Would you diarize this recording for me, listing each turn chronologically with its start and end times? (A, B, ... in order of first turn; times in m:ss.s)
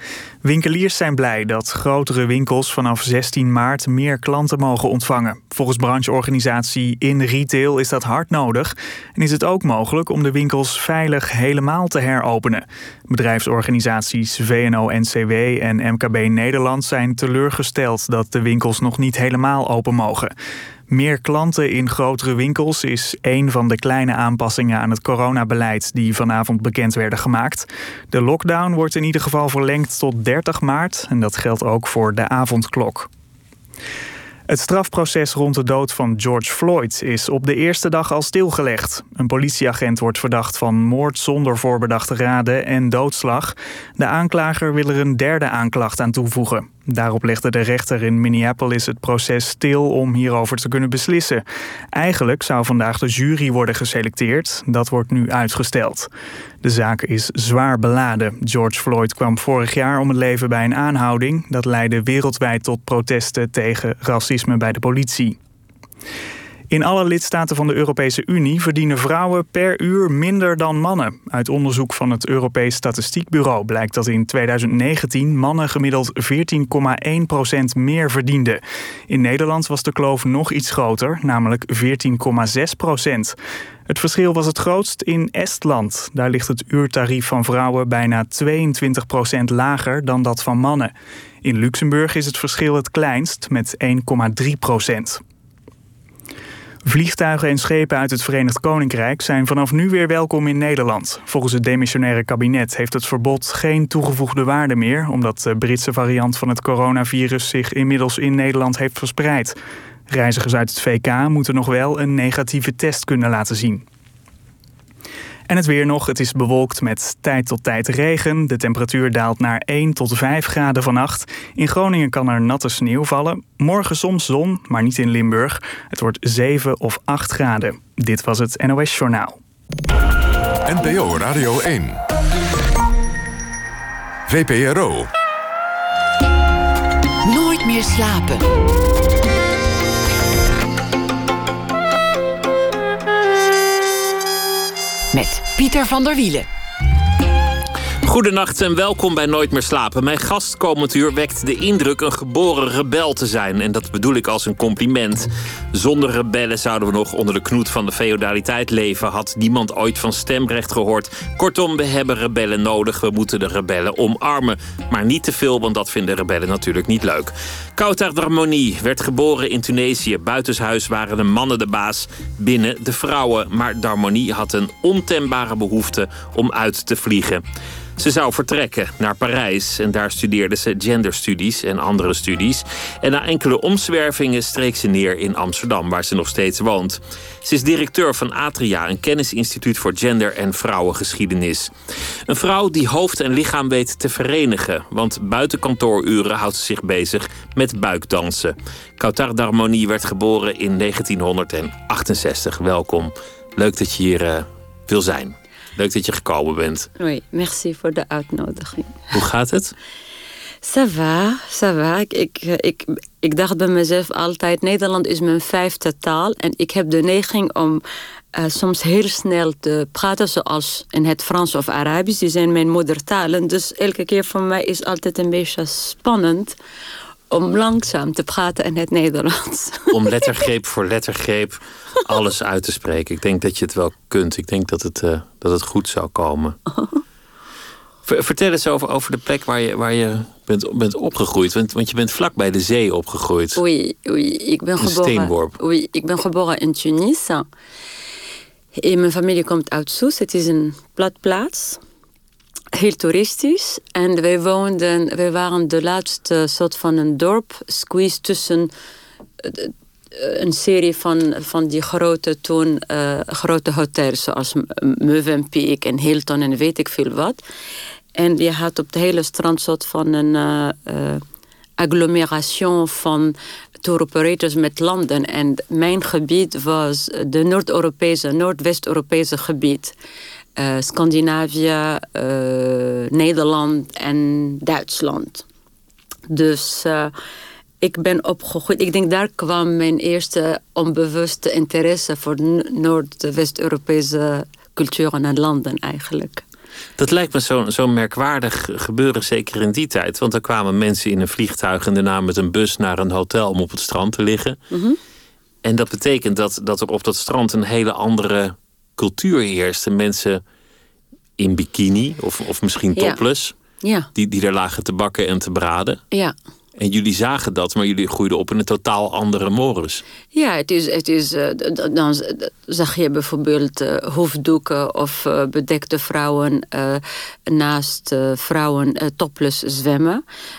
0:00.4-0:20.3 A
0:20.9-0:33.1 A
0:34.5-0:56.1 A
0:56.6-1:05.4 A
1:06.7-1:23.4 A
1:23.9-1:30.9 A
1:31.4-1:35.2 A
1:36.8-1:49.6 A
1:50.1-1:53.8 A
1:55.5-2:09.4 A
2:10.6-2:12.0 B
2:14.3-2:15.1 B
2:17.2-2:18.5 C
2:25.1-2:26.5 C
2:28.0-2:57.4 D
2:58.0-3:11.7 D
3:12.3-3:26.9 D
3:27.0-3:29.1 E
3:29.1-3:29.7 D
3:30.6-3:37.8 E
3:38.3-3:46.6 E
3:47.3-3:50.0 E
3:49.9-3:56.6 D
3:58.0-4:03.6 D
4:03.6-4:07.4 E
4:04.8-4:05.6 D
4:08.8-4:11.8 E
4:12.7-4:18.7 E
4:19.4-4:27.4 E
4:28.2-4:31.2 E
4:31.8-4:39.9 E
4:40.6-4:45.4 E
4:46.3-4:47.1 E
4:47.8-4:56.4 E
4:57.0-5:04.6 D
5:04.7-5:05.0 E
5:05.6-5:10.4 D
5:11.4-5:13.5 D
5:13.0-5:13.2 E
5:13.8-5:14.1 E
5:14.1-5:16.0 D
5:16.8-5:20.0 D
5:20.3-5:30.2 E